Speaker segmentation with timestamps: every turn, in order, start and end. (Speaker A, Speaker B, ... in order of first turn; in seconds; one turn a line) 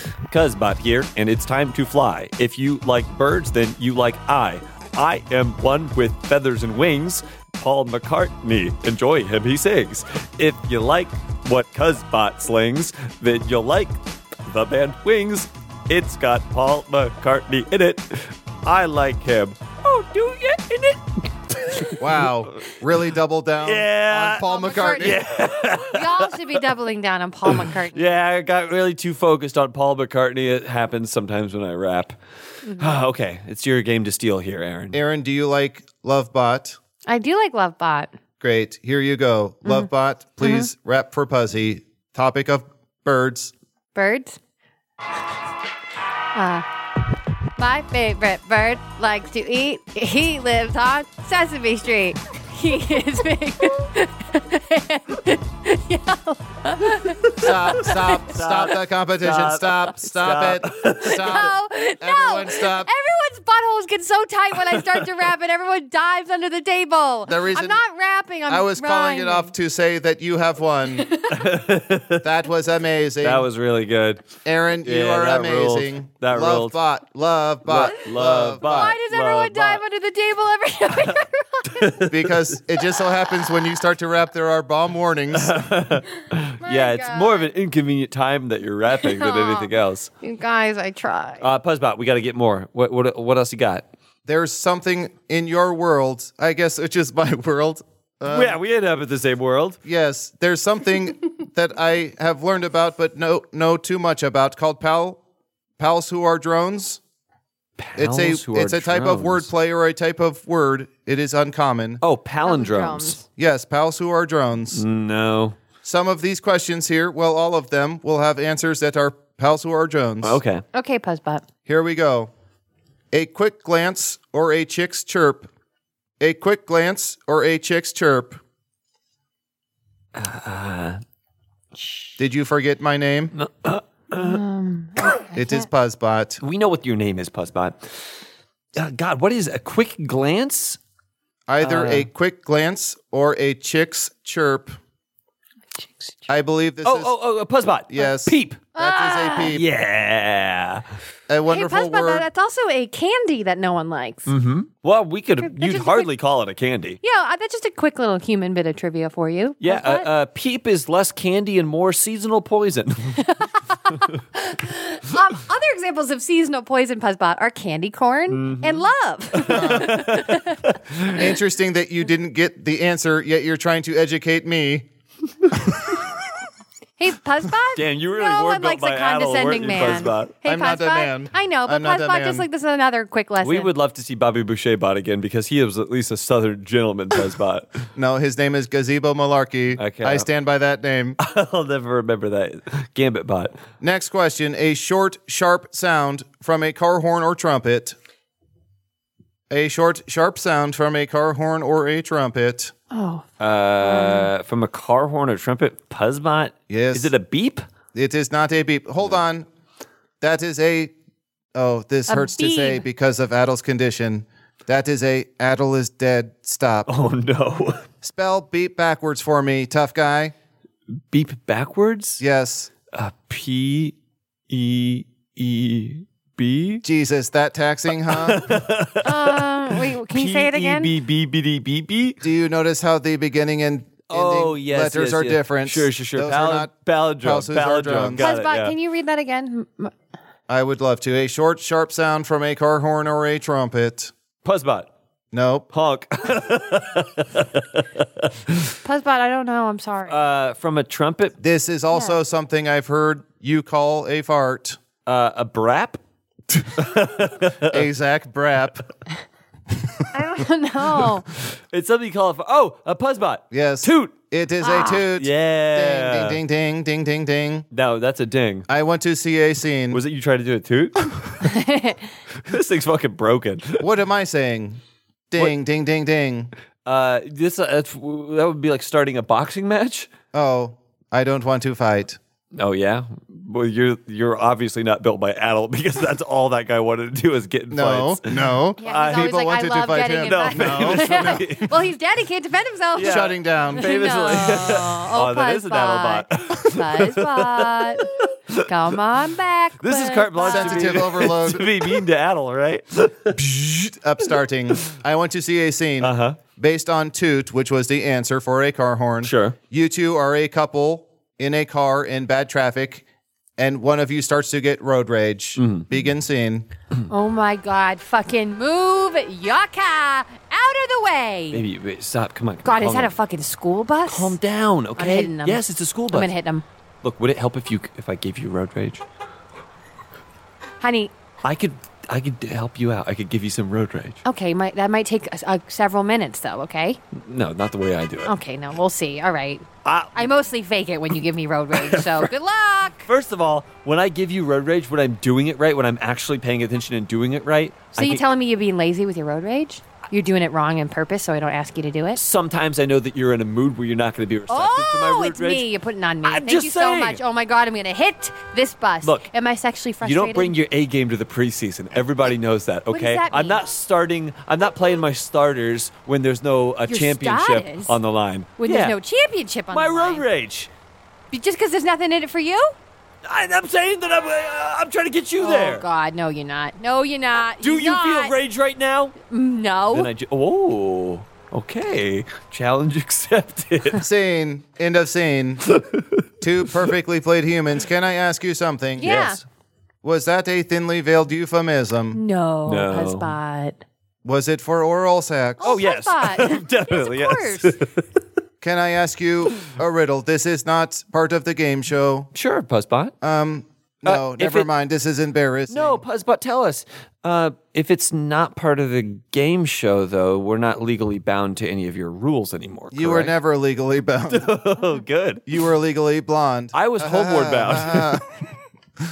Speaker A: 0.3-22.7
Speaker B: 22.0-25.2
Speaker A: 23.6-26.6
Speaker C: 24.4-25.1
Speaker C: 25.8-28.1
Speaker A: 27.5-32.2
Speaker C: 32.6-33.0
Speaker A: 32.7-35.0
Speaker B: 34.9-36.8
Speaker C: 37.1-38.1
Speaker B: 38.4-43.5
Speaker C: 40.4-40.7
Speaker C: 43.9-44.4
Speaker C: 46.3-46.6
Speaker C: 47.6-58.1
Speaker B: 57.3-62.9
Speaker A: 58.3-61.4
Speaker C: 61.0-69.5
Speaker B: 67.2-67.8
Speaker B: 68.5-71.1
Speaker A: 71.3-72.3
Speaker B: 72.2-73.5
Speaker A: 73.2-74.2
Speaker B: 74.4-78.9
Speaker A: 74.8-76.8
Speaker A: 77.7-79.8
Speaker C: 78.6-82.0
Speaker A: 81.7-82.3
Speaker B: 82.1-85.5
Speaker A: 85.3-90.1
Speaker C: 86.6-87.5
Speaker C: 89.0-89.7
Speaker C: 90.2-91.4
Speaker A: 91.4-93.8
Speaker B: 94.2-98.6
Speaker A: 98.3-99.8
Speaker B: 99.8-105.2
Speaker B: 105.8-107.0
Speaker A: 107.8-109.5
Speaker B: 108.0-112.0
Speaker A: 112.0-113.2
Speaker C: 112.4-113.2
Speaker B: 113.4-114.8
Speaker A: 114.7-115.6
Speaker B: 115.8-120.4
Speaker A: 120.2-120.6
Speaker C: 120.7-121.4
Speaker B: 121.7-122.3
Speaker B: 123.1-125.5
Speaker B: 126.2-128.4
Speaker A: 130.1-131.0
Speaker B: 132.2-133.3
Speaker A: 133.3-134.4
Speaker C: 134.2-135.6
Speaker B: 135.3-136.4
Speaker A: 136.4-138.0
Speaker A: 138.8-140.8
Speaker B: 141.5-144.8
Speaker A: 141.6-142.1
Speaker B: 146.3-147.1
Speaker A: 146.8-148.7
Speaker B: 147.9-149.6
Speaker C: 148.7-149.5
Speaker A: 149.5-150.8
Speaker B: 151.3-152.2
Speaker C: 151.5-154.3
Speaker A: 154.3-157.0
Speaker C: 155.4-156.1
Speaker C: 157.0-160.1
Speaker A: 159.6-163.3
Speaker C: 163.2-170.8
Speaker A: 168.3-171.2
Speaker B: 169.5-169.9
Speaker B: 171.1-174.9
Speaker C: 177.0-183.7
Speaker A: 177.7-180.3
Speaker B: 180.4-182.4
Speaker A: 183.4-187.7
Speaker B: 187.9-191.2
Speaker A: 189.8-190.2
Speaker A: 191.2-193.6
Speaker B: 193.8-197.9
Speaker B: 199.5-202.7
Speaker C: 202.9-203.3
Speaker A: 203.4-207.6
Speaker C: 203.8-204.3
Speaker B: 206.7-207.1
Speaker B: 207.9-209.5
Speaker B: 210.2-210.9
Speaker B: 211.5-216.9
Speaker C: 212.1-212.8
Speaker A: 216.9-217.8
Speaker B: 218.0-220.3
Speaker A: 221.1-222.2
Speaker B: 222.2-222.7
Speaker A: 222.9-223.9
Speaker A: 224.5-226.8
Speaker B: 226.8-228.4
Speaker A: 228.1-232.2
Speaker C: 229.0-230.9
Speaker B: 232.2-238.3
Speaker A: 234.1-238.7
Speaker C: 238.2-239.9
Speaker B: 240.5-244.1
Speaker A: 244.4-244.9
Speaker B: 245.3-245.7
Speaker A: 245.7-248.7
Speaker C: 248.8-250.2
Speaker A: 250.1-251.4
Speaker B: 251.4-254.8
Speaker C: 251.9-252.2
Speaker A: 255.1-256.0
Speaker A: 256.6-257.8
Speaker B: 257.7-258.8
Speaker C: 260.1-261.2
Speaker A: 261.7-264.1
Speaker B: 263.5-267.7
Speaker C: 264.6-265.0
Speaker A: 265.1-266.4
Speaker A: 267.7-268.7
Speaker B: 268.7-270.0
Speaker A: 269.9-271.3
Speaker C: 271.4-272.0
Speaker A: 272.4-273.8
Speaker B: 273.8-274.8
Speaker B: 275.3-276.5
Speaker A: 276.9-280.1
Speaker B: 280.3-282.2
Speaker A: 282.5-289.4
Speaker B: 287.7-291.5
Speaker C: 288.8-298.1
Speaker A: 290.2-291.7
Speaker A: 292.9-298.6
Speaker B: 293.0-293.9
Speaker C: 298.6-301.1
Speaker A: 299.8-303.4
Speaker B: 300.5-301.9
Speaker B: 303.4-313.0
Speaker A: 306.0-306.4
Speaker A: 309.2-309.6
Speaker B: 313.6-316.7
Speaker A: 315.6-315.9
Speaker C: 317.1-321.6
Speaker A: 321.5-323.1
Speaker C: 322.6-324.4
Speaker A: 324.1-326.3
Speaker C: 325.0-326.6
Speaker A: 327.0-329.0
Speaker C: 330.8-331.1
Speaker A: 331.4-334.2
Speaker C: 334.2-337.0
Speaker A: 337.1-338.3
Speaker C: 338.2-343.0
Speaker A: 339.8-340.3
Speaker A: 341.7-342.3
Speaker A: 343.0-348.2
Speaker C: 347.9-352.2
Speaker A: 352.1-355.7
Speaker C: 354.5-360.6
Speaker A: 356.2-357.2
Speaker A: 359.0-359.3
Speaker A: 360.0-368.9
Speaker C: 362.9-363.6
Speaker C: 366.9-368.0
Speaker C: 368.6-370.2
Speaker A: 369.7-370.7
Speaker C: 371.3-372.7
Speaker A: 373.2-375.8
Speaker C: 375.4-378.3
Speaker A: 377.6-379.1
Speaker C: 379.3-380.1
Speaker A: 379.9-384.0
Speaker B: 384.0-385.7
Speaker A: 385.7-386.1
Speaker B: 386.4-389.1
Speaker C: 389.0-389.4
Speaker A: 389.0-389.4
Speaker B: 390.0-392.2
Speaker C: 392.1-393.8
Speaker A: 392.6-393.4
Speaker B: 394.2-395.8
Speaker C: 395.6-397.8
Speaker A: 395.6-398.0
Speaker B: 398.6-402.3
Speaker A: 402.3-403.1
Speaker B: 403.2-406.0
Speaker A: 404.1-404.7
Speaker A: 405.7-413.3
Speaker B: 412.9-414.5
Speaker A: 414.3-415.4
Speaker B: 415.5-418.2
Speaker A: 416.7-418.2